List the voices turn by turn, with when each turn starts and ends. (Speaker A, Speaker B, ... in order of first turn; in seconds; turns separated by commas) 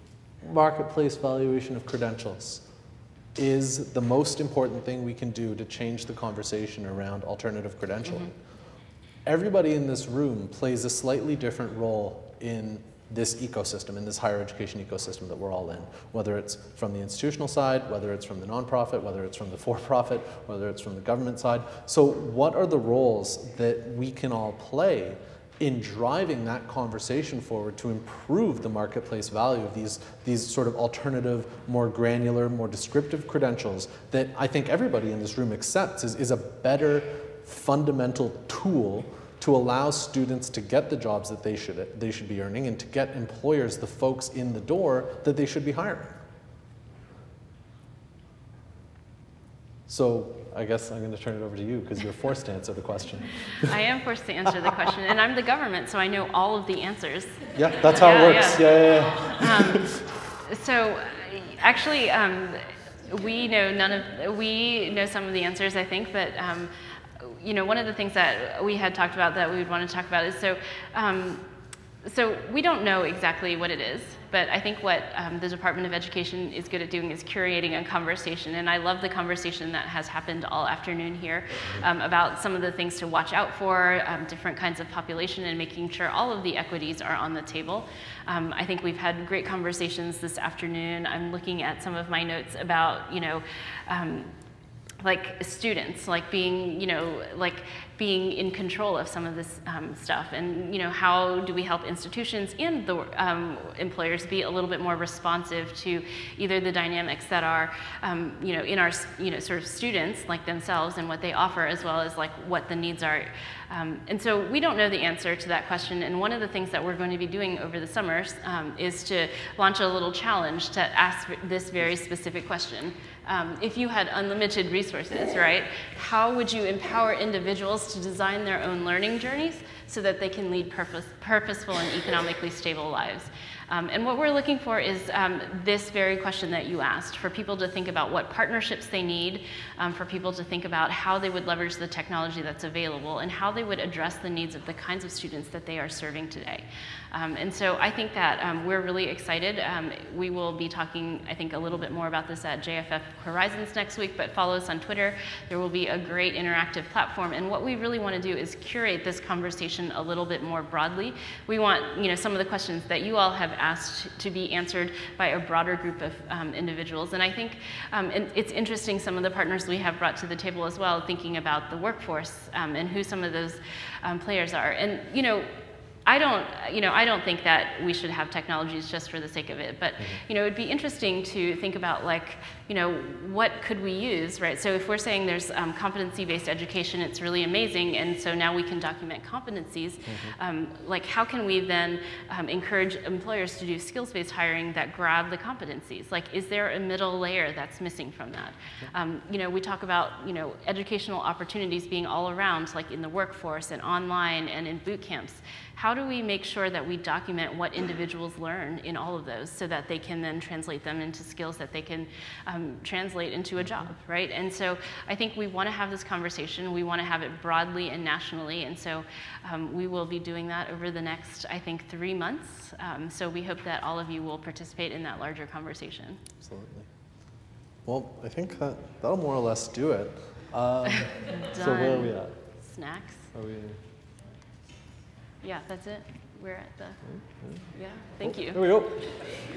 Speaker A: 0.4-2.7, Speaker A: 3.4-8.3, Speaker A: 9.3-46.2, Speaker A: 49.9-53.7, Speaker B: 53.6-59.9, Speaker A: 57.5-60.0, Speaker B: 60.5-71.5, Speaker B: 72.0-94.3, Speaker B: 95.0-175.5, Speaker B: 176.1-226.2, Speaker A: 190.1-190.3, Speaker A: 213.6-213.9, Speaker A: 226.4-226.9, Speaker A: 227.8-232.3, Speaker B: 231.2-233.3, Speaker A: 233.3-233.8, Speaker B: 235.4-237.0, Speaker A: 237.1-237.7, Speaker B: 237.7-238.7, Speaker A: 238.2-239.1